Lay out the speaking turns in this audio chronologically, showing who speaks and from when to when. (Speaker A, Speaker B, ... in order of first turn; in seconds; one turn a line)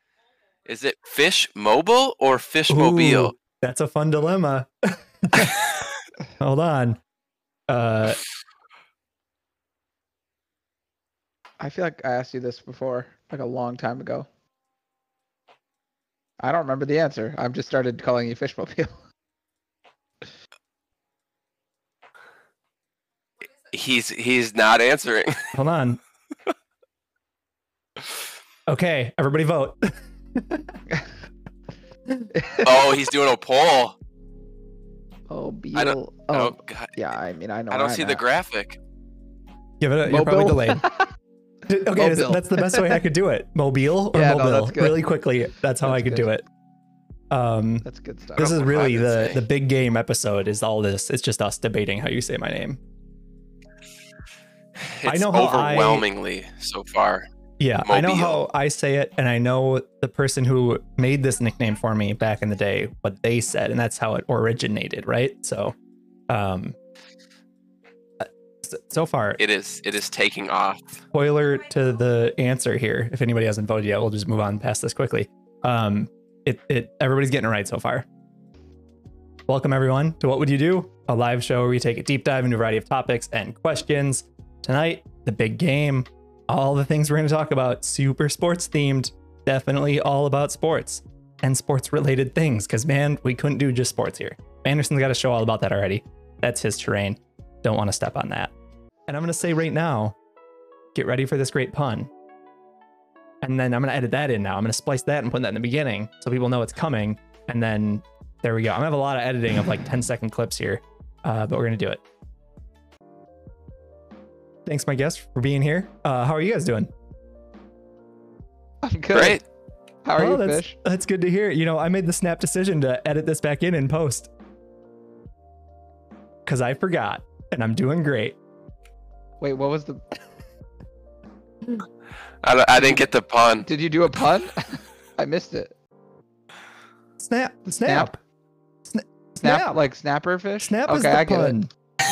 Speaker A: 0.7-3.4
Speaker B: 2.7-5.6
Speaker B: 6.4-7.0
Speaker B: 7.7-8.2
Speaker C: 11.6-14.3
Speaker C: 16.4-19.0
Speaker A: 23.7-25.6
Speaker B: 25.6-26.0
Speaker B: 28.7-30.8
Speaker C: 32.3-33.0
Speaker A: 32.6-34.0
Speaker C: 35.3-38.2
Speaker A: 35.8-37.0
Speaker A: 37.7-38.8
Speaker B: 39.8-40.8
Speaker C: 40.1-41.1
Speaker B: 41.7-46.4
Speaker C: 41.9-43.0
Speaker C: 44.1-45.0
Speaker C: 45.8-46.3
Speaker B: 47.3-47.9
Speaker C: 47.8-48.6
Speaker B: 48.4-52.8
Speaker A: 48.4-49.4
Speaker A: 54.8-57.2
Speaker B: 55.1-56.1
Speaker B: 57.6-65.7
Speaker A: 57.9-58.4
Speaker B: 66.3-66.8
Speaker B: 68.2-69.4
Speaker A: 69.4-71.0
Speaker B: 71.1-78.0
Speaker B: 79.5-98.5
Speaker B: 99.1-100.2
Speaker B: 100.9-102.1
Speaker B: 103.4-112.0
Speaker B: 114.7-116.9
Speaker C: 118.8-119.4
Speaker A: 119.1-119.4
Speaker C: 120.0-120.8
Speaker B: 120.2-124.3
Speaker B: 126.5-128.4
Speaker C: 129.4-130.0
Speaker A: 132.4-133.7
Speaker C: 132.8-133.1
Speaker C: 133.6-135.7
Speaker B: 137.2-138.2
Speaker C: 137.8-138.2
Speaker B: 138.9-139.8
Speaker C: 139.4-141.6
Speaker B: 140.6-141.7